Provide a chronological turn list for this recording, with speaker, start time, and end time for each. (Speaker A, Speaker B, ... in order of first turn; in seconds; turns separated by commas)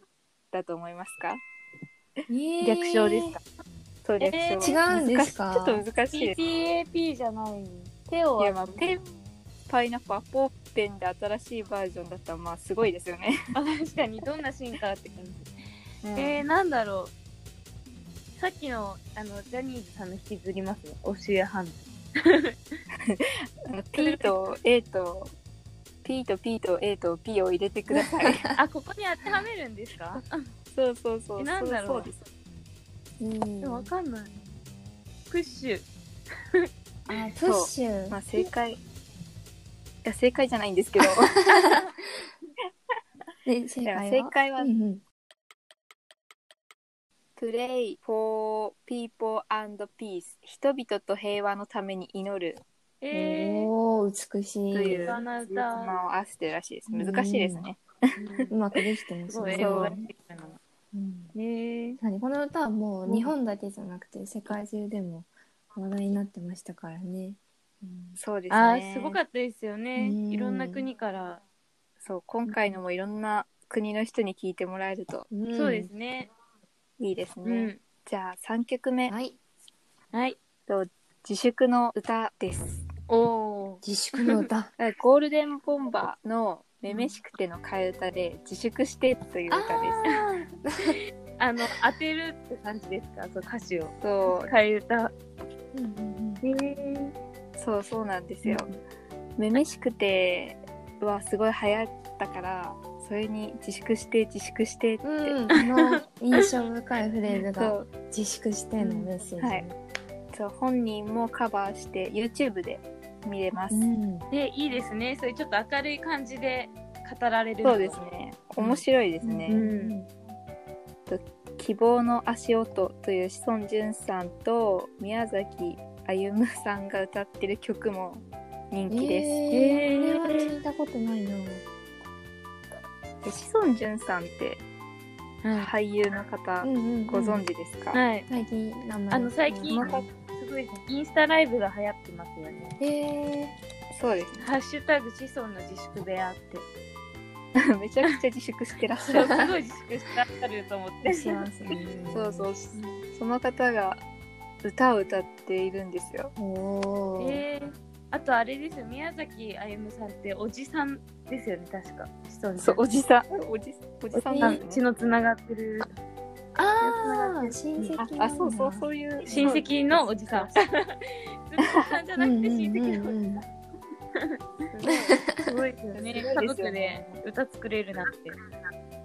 Speaker A: 0.5-1.4, Speaker B: 2.3-3.4, Speaker A: 2.6-3.4, Speaker A: 4.0-6.4, Speaker C: 4.2-4.8, Speaker B: 4.6-5.8, Speaker C: 6.1-8.9, Speaker A: 8.4-9.1, Speaker A: 9.7-13.3, Speaker C: 13.5-15.5, Speaker A: 16.0-16.4, Speaker C: 16.1-17.1, Speaker C: 18.4-22.6, Speaker A: 23.1-25.3, Speaker C: 23.9-24.3, Speaker A: 26.0-28.5, Speaker B: 28.2-28.6, Speaker C: 28.6-30.4, Speaker A: 30.7-32.2, Speaker C: 31.4-32.1, Speaker B: 33.2-33.9, Speaker C: 33.6-34.3, Speaker C: 35.3-35.9, Speaker B: 37.1-38.2, Speaker A: 37.4-38.8, Speaker A: 40.0-41.7, Speaker B: 41.0-41.9, Speaker B: 43.4-45.0, Speaker A: 43.8-44.7, Speaker A: 47.4-52.6, Speaker C: 53.0-53.7, Speaker B: 53.1-55.2, Speaker A: 54.7-58.1, Speaker C: 55.0-56.0, Speaker B: 56.9-57.6, Speaker C: 58.2-58.5, Speaker B: 58.5-60.1, Speaker C: 59.3-60.6, Speaker A: 59.5-59.9, Speaker B: 60.9-61.3, Speaker C: 61.3-62.0, Speaker B: 62.0-68.2, Speaker A: 68.2-69.2, Speaker C: 68.5-71.4, Speaker B: 70.0-70.8, Speaker A: 72.0-75.3, Speaker C: 72.5-72.8, Speaker B: 75.3-75.9, Speaker C: 75.5-76.3, Speaker A: 77.0-79.1, Speaker C: 77.4-77.8, Speaker B: 79.1-79.4, Speaker C: 80.1-80.4, Speaker A: 80.7-83.0, Speaker C: 83.1-84.4, Speaker B: 83.8-84.7, Speaker A: 84.8-90.0, Speaker B: 89.5-91.0, Speaker C: 91.4-95.1, Speaker A: 94.0-94.5, Speaker B: 95.7-96.4, Speaker C: 96.4-97.1, Speaker A: 97.6-98.7, Speaker A: 99.4-105.4, Speaker B: 105.0-109.8, Speaker C: 105.6-105.9, Speaker A: 107.5-107.9, Speaker C: 108.8-109.0, Speaker A: 109.4-109.6, Speaker A: 110.3-113.8, Speaker B: 113.7-114.3, Speaker C: 114.3-118.0, Speaker A: 117.6-119.7, Speaker C: 118.6-118.8, Speaker B: 119.2-120.1, Speaker C: 119.5-119.9, Speaker A: 121.1-129.4, Speaker B: 128.9-131.6, Speaker C: 129.5-130.6, Speaker A: 133.2-134.6, Speaker C: 135.4-135.7, Speaker A: 135.5-138.0, Speaker B: 136.6-137.4, Speaker C: 137.9-138.3, Speaker B: 138.3-140.0, Speaker C: 139.1-142.8, Speaker A: 139.7-140.1, Speaker B: 142.8-143.6, Speaker A: 143.9-144.5, Speaker C: 144.4-146.7, Speaker A: 147.6-149.5, Speaker C: 149.1-151.4, Speaker B: 151.0-152.5, Speaker A: 152.1-154.0, Speaker C: 152.7-153.0, Speaker A: 154.6-156.3, Speaker B: 156.3-157.4, Speaker C: 157.2-162.8, Speaker A: 162.6-164.8, Speaker C: 164.1-166.0, Speaker B: 164.3-164.6, Speaker B: 166.6-169.6, Speaker C: 166.8-168.0, Speaker A: 167.9-170.6, Speaker C: 169.2-173.2, Speaker B: 172.2-173.4, Speaker C: 174.2-178.4, Speaker A: 174.7-175.1, Speaker B: 174.9-175.5, Speaker A: 175.9-177.1